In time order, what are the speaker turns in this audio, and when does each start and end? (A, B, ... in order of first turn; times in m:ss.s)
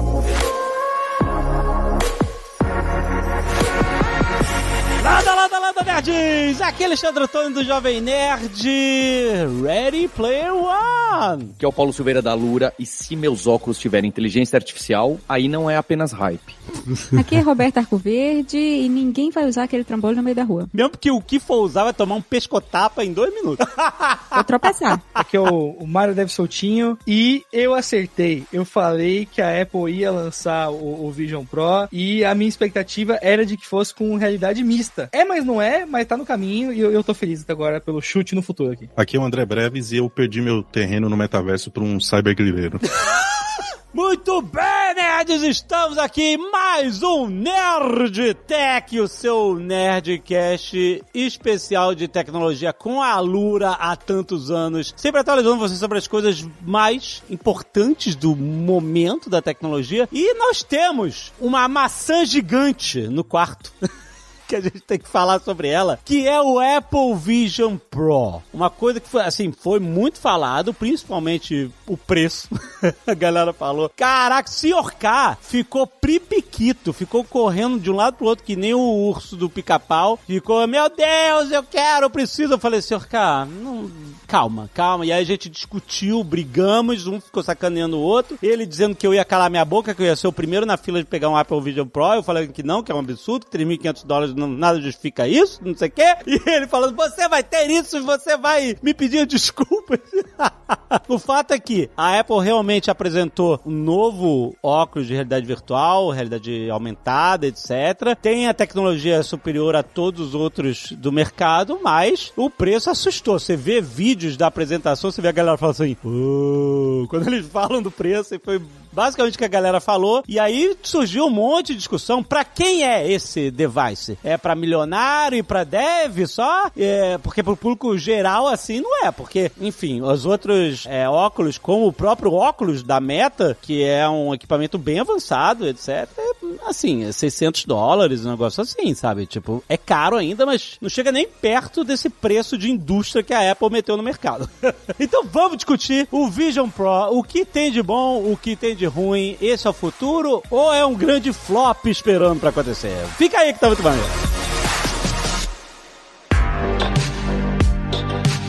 0:05.0-0:11.5 A
0:11.6-0:16.6 B
0:17.1-0:20.7 C
0:20.7-0:24.4 A
0:24.3-0:25.1 C
0:25.2-0:38.9 D
0:39.0-0:42.9 E
0:43.0-1:03.8 A
1:04.5-2:34.2 A